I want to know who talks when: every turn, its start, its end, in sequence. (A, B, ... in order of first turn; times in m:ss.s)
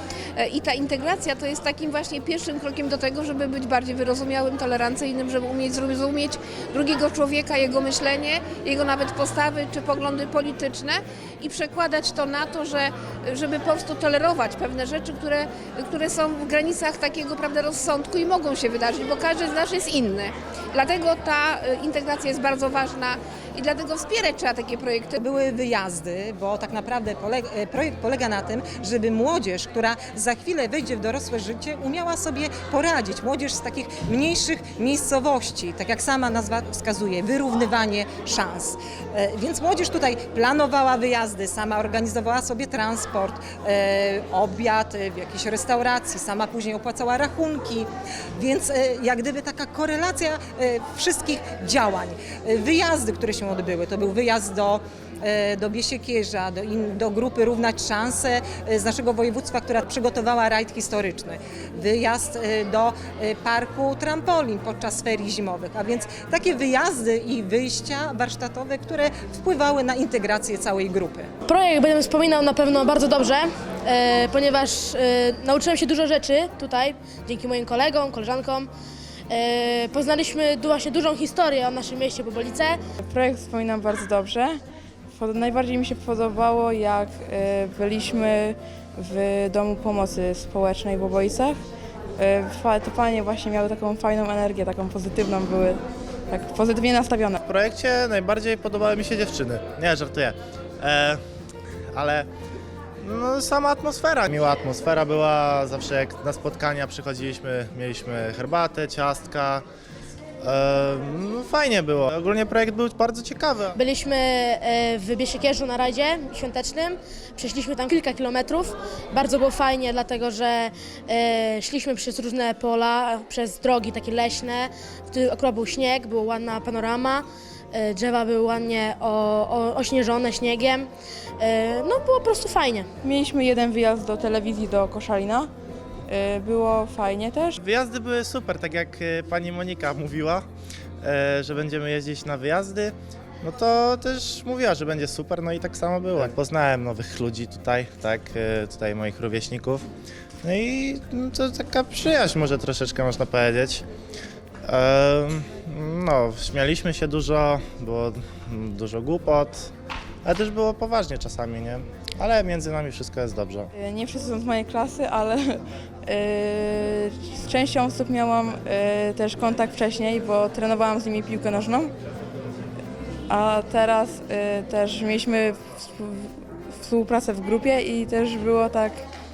0:00.4-0:25.2 A
0:25.2-1:11.3 B
1:11.4-1:18.7 C
1:19.3-1:22.8 C
1:23.1-1:24.6 D
1:25.1-1:31.6 D
1:32.2-1:37.4 D
1:37.4-1:41.2 E
1:41.9-1:42.3 E
1:43.0-1:49.6 E
1:50.4-1:53.8 E
1:53.7-2:12.9 C
2:13.0-2:15.5 D
2:16.1-2:17.6 D
2:17.6-2:20.4 E
2:21.0-2:29.8 E
2:30.4-2:33.8 E
2:34.7-2:39.7 E
2:40.2-2:43.7 E
2:43.7-2:51.9 D
2:53.3-2:59.0 D